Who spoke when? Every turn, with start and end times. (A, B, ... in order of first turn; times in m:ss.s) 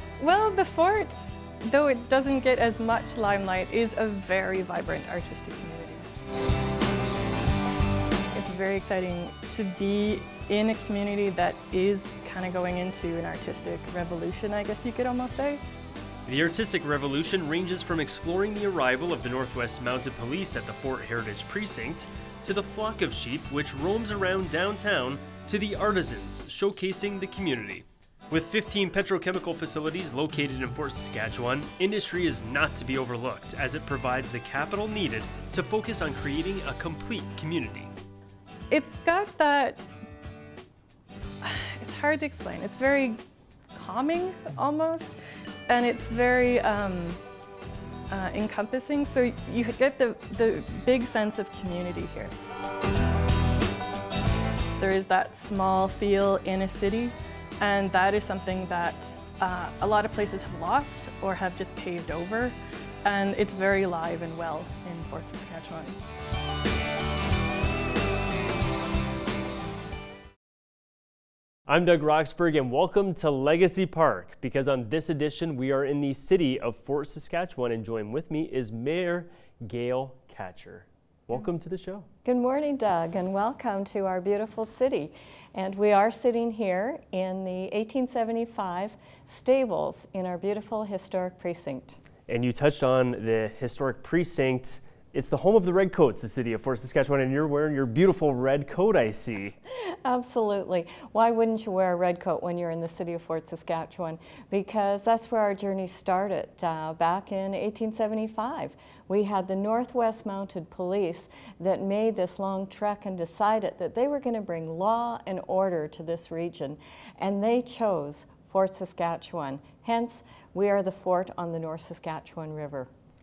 0:00.2-0:06.1 A
0:08.3-0:15.6 A
0:16.3-0:37.9 B
0:38.7-0:39.8 A
0:41.4-0:43.2 A
0:43.7-0:45.2 A
0:45.7-0:47.2 A
0:48.1-0:52.3 A
0:54.8-1:06.0 A
1:11.7-1:22.1 B
1:22.2-1:32.0 C
1:32.3-1:39.6 B
1:39.9-2:02.9 C